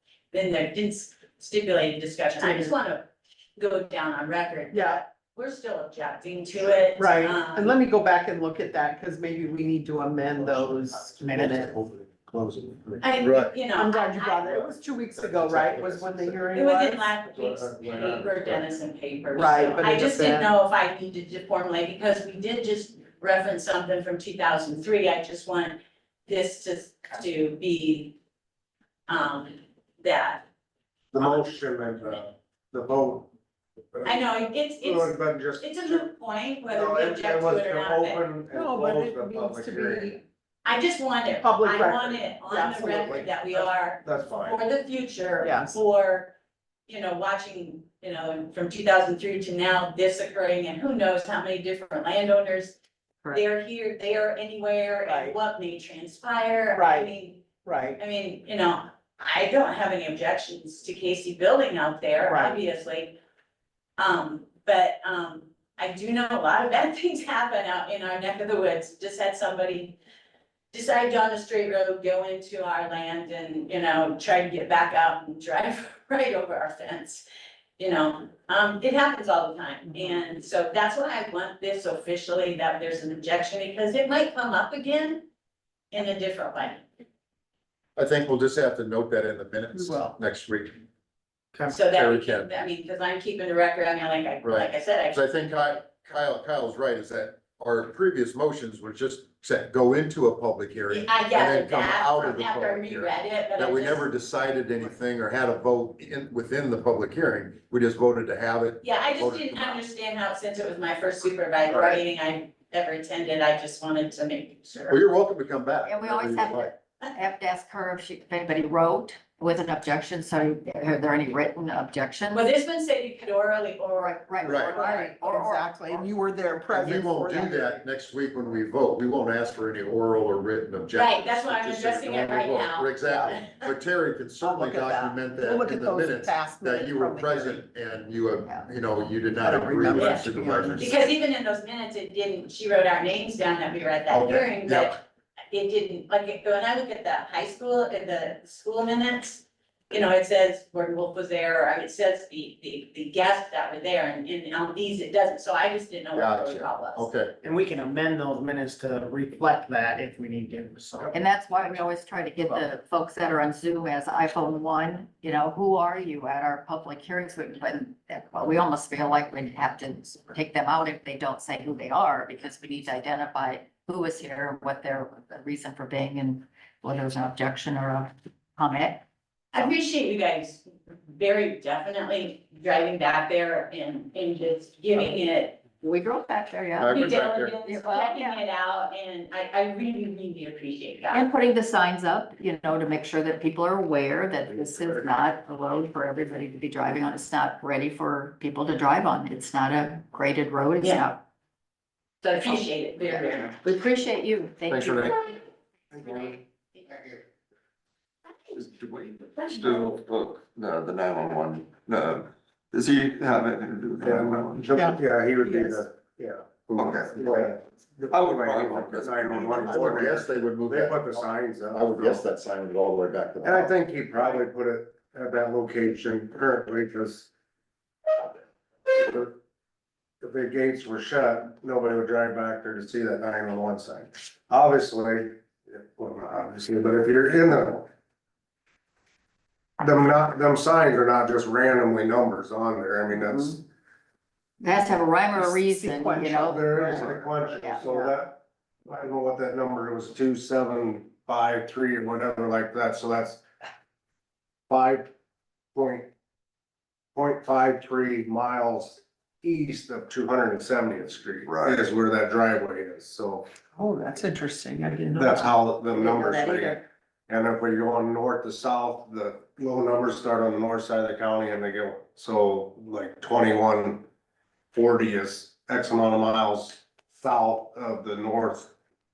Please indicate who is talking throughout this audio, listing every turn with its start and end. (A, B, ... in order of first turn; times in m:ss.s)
0:00.3-0:03.1 A
0:03.6-0:07.8 A
0:04.7-0:05.0 B
0:07.0-0:11.8 B
0:10.4-0:13.1 C
0:13.0-0:14.6 A
0:13.2-0:13.5 D
0:13.7-0:17.1 B
0:15.2-0:16.4 C
0:15.6-0:15.8 D
0:16.5-0:28.2 A
0:17.3-0:18.6 C
0:19.4-0:20.5 B
0:29.1-0:30.4 A
0:31.1-0:33.3 C
0:31.2-0:31.4 A
0:33.9-0:34.2 C
0:34.0-0:38.2 A
0:34.8-0:36.1 C
0:36.7-0:40.2 C
0:38.5-0:40.2 B
0:40.6-0:46.3 A
0:41.4-0:43.1 B
0:42.8-0:44.6 C
0:45.4-0:45.8 B
0:46.9-0:52.8 A
0:53.3-0:57.4 A
0:55.1-0:55.4 B
0:56.7-0:58.0 B
0:58.0-1:03.2 A
1:02.2-1:02.6 B
1:04.0-1:10.0 A
1:10.7-1:17.2 A
1:17.8-1:25.2 A
1:25.9-1:26.9 A
1:28.0-1:30.8 D
1:31.7-1:35.3 A
1:31.8-1:32.5 D
1:34.4-1:49.8 D
1:40.9-1:44.1 A
1:48.8-1:55.0 A
1:54.9-1:56.7 D
1:55.8-2:02.5 E
2:02.3-2:05.1 A
2:04.0-2:06.0 E
2:04.4-2:04.8 D
2:04.6-2:07.8 B
2:06.7-2:21.0 D
2:11.0-2:13.6 A
2:13.1-2:13.3 B
2:14.4-2:17.6 B
2:19.4-2:20.8 B
2:19.9-2:25.0 A
2:24.1-2:25.0 D
2:25.5-2:37.1 A
2:36.1-2:37.4 D
2:37.4-2:41.2 F
2:41.1-2:59.0 E
2:59.5-3:05.6 A
3:05.8-3:08.4 E
3:06.8-3:07.6 D
3:06.9-3:11.3 A
3:11.1-3:21.2 E
3:20.8-3:21.1 A
3:22.2-3:23.6 A
3:22.4-3:25.3 E
3:24.7-3:25.1 D
3:25.9-3:27.2 C
3:28.5-3:34.7 G
3:34.0-3:42.2 C
3:34.7-3:35.8 B
3:36.8-3:37.5 G
3:36.8-3:37.5 D
3:38.1-3:40.2 G
3:39.6-3:43.7 D
3:43.4-3:47.3 C
3:48.9-3:49.4 C
3:50.2-3:57.9 C
3:59.8-4:03.6 C
4:03.2-4:03.5 E
4:04.6-4:07.8 E
4:05.3-4:07.0 B
4:06.3-4:13.4 C
4:07.8-4:08.2 B
4:14.7-4:15.1 C
4:15.7-4:16.1 C
4:17.2-4:23.5 C
4:21.4-4:21.8 G
4:23.8-4:25.6 B
4:25.1-4:34.0 C
4:26.0-4:26.8 E
4:26.3-4:26.6 B
4:34.7-4:38.7 C